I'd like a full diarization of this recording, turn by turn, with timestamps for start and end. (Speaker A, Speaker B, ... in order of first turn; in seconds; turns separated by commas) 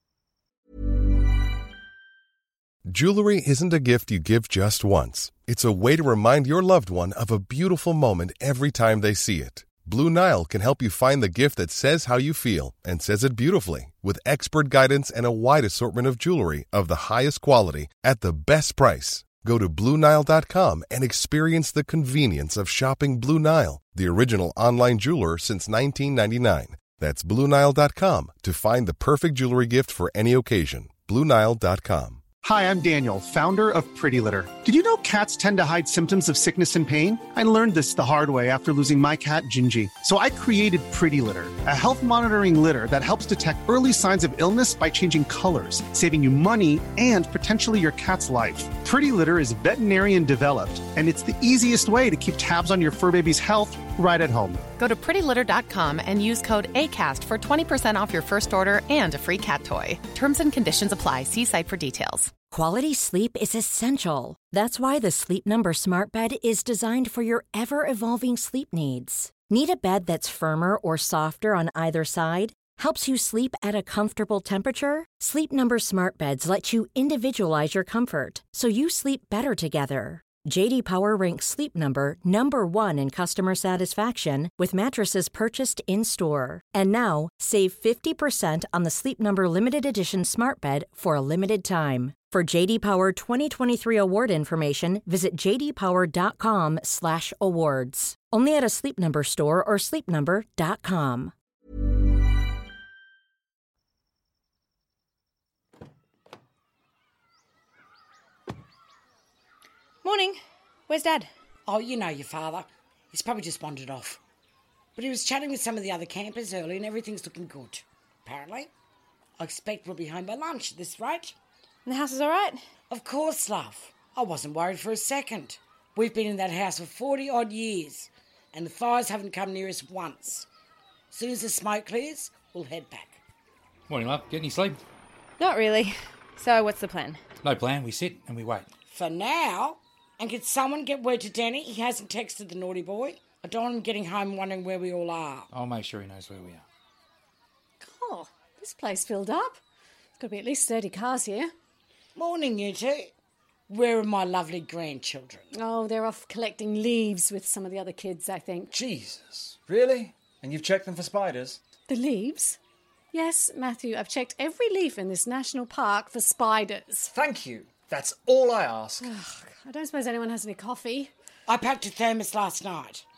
Speaker A: 2.9-32.3, Speaker B: 32.4-54.6, Speaker C: 54.8-62.3, Speaker D: 62.5-101.3, Speaker E: 110.0-111.3, Speaker F: 111.7-114.2, Speaker F: 115.0-118.7, Speaker F: 119.4-121.4, Speaker E: 121.9-122.6, Speaker F: 122.9-130.5, Speaker F: 131.1-133.2, Speaker G: 133.9-134.8, Speaker E: 135.4-137.2, Speaker G: 137.4-138.7, Speaker F: 138.9-145.5, Speaker G: 145.5-146.7, Speaker H: 147.8-149.6, Speaker H: 150.2-151.5, Speaker F: 152.2-153.1, Speaker F: 153.7-155.5, Speaker H: 155.5-158.7, Speaker I: 158.7-161.6, Speaker H: 161.9-162.6, Speaker H: 163.1-167.1, Speaker I: 167.1-169.1, Speaker H: 169.0-171.1, Speaker F: 171.5-173.0